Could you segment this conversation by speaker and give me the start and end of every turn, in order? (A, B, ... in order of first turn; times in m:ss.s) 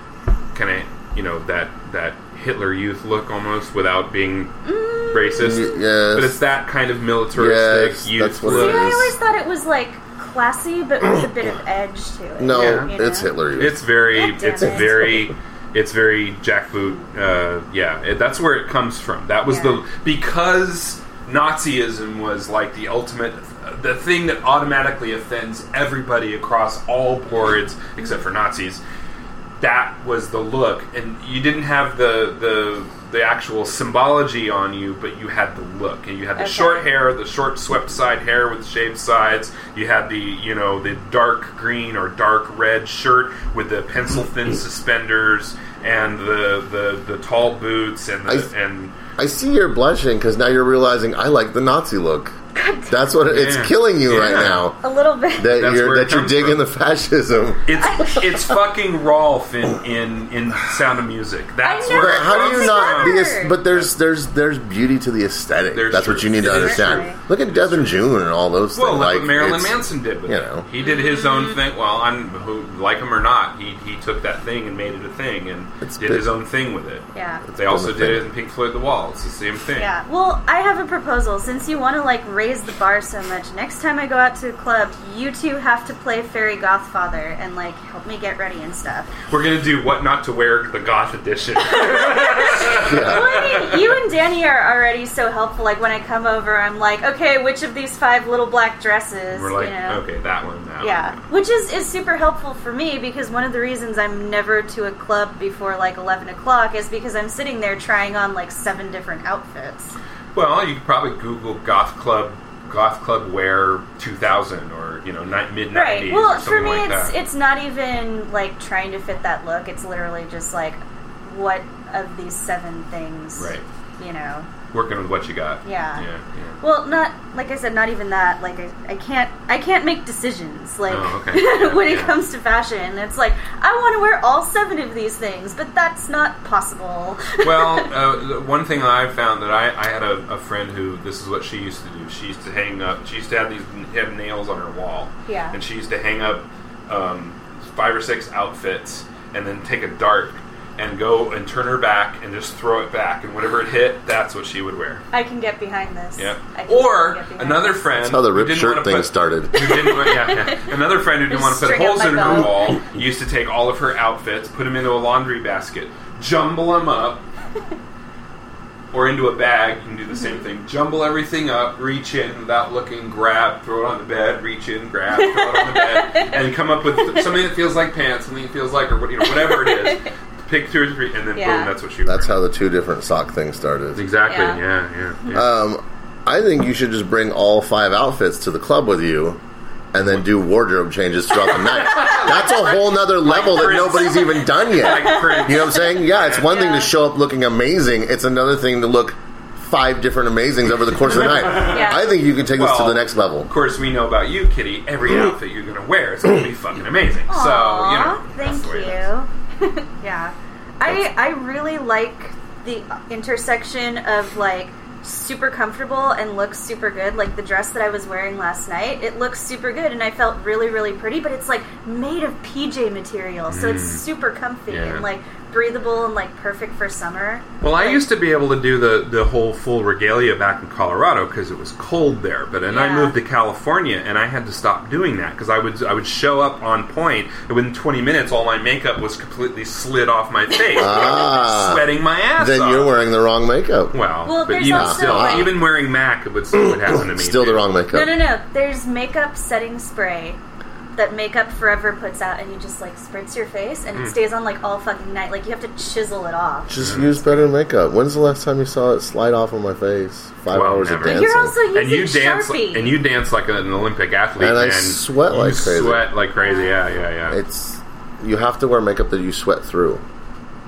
0:00.5-0:04.5 A
0:04.6-0:05.7 B
0:05.1-0:09.0 A
0:05.4-0:06.4 C
0:07.3-0:09.1 C
0:08.4-0:13.3 B
0:12.4-0:13.8 C
0:12.5-0:12.9 A
0:13.6-0:28.8 A
0:14.1-0:15.0 B
0:14.5-0:15.3 C
0:19.5-0:19.8 B
0:29.6-0:49.0 A
0:36.4-0:36.9 B
0:49.2-0:54.8 C
0:52.5-0:53.1 B
0:53.2-0:54.7 A
0:54.8-0:55.5 B
0:55.4-0:58.2 C
0:55.5-0:56.6 A
0:57.6-1:03.9 A
0:57.8-0:58.3 B
1:01.6-1:03.6 B
1:01.9-1:10.7 C
1:05.7-1:08.0 A
1:06.4-1:07.2 B
1:08.7-1:19.9 A
1:10.8-1:11.6 B
1:15.8-1:16.3 C
1:17.1-1:17.4 B
1:17.5-1:18.3 C
1:19.8-1:29.1 B
1:29.3-1:33.9 A
1:31.6-1:40.0 B
1:32.8-1:33.4 C
1:39.3-1:41.3 A
1:40.8-1:50.0 B
1:50.3-1:57.1 A
1:55.7-2:04.5 B
2:03.3-2:03.6 A
2:04.7-2:06.6 A
2:05.6-2:06.0 B
2:06.6-2:17.9 B
2:10.9-2:12.2 A
2:17.4-2:35.0 A
2:25.2-2:25.6 B
2:35.1-2:37.8 B
2:36.2-2:47.2 A
2:38.0-2:39.7 C
2:39.6-2:40.6 B
2:41.3-2:42.8 B
2:48.9-3:02.4 A
2:55.2-2:56.4 B
2:57.0-2:57.3 B
2:59.3-3:00.0 B
3:01.3-3:01.7 B
3:02.0-3:04.1 C
3:03.9-3:05.5 A
3:04.3-3:04.6 B
3:05.3-3:09.4 C
3:09.9-3:23.5 C
3:11.4-3:16.5 A
3:14.9-3:16.9 B
3:21.1-3:29.0 A
3:21.5-3:22.1 B
3:27.3-3:48.0 B
3:43.5-3:44.0 A
3:44.7-3:45.1 A
3:47.6-4:02.9 A
3:52.7-3:53.2 B
4:00.7-4:04.0 C
4:00.8-4:01.2 B
4:03.9-4:07.7 A
4:04.2-4:05.6 B
4:04.6-4:05.6 C
4:06.5-4:08.2 C
4:07.9-4:10.4 B
4:11.0-4:17.4 B
4:16.7-4:21.6 C
4:16.8-4:17.1 A
4:20.5-4:27.4 A
4:21.0-4:23.0 B
4:24.4-4:26.1 C
4:26.4-4:26.8 B
4:27.3-4:30.0 C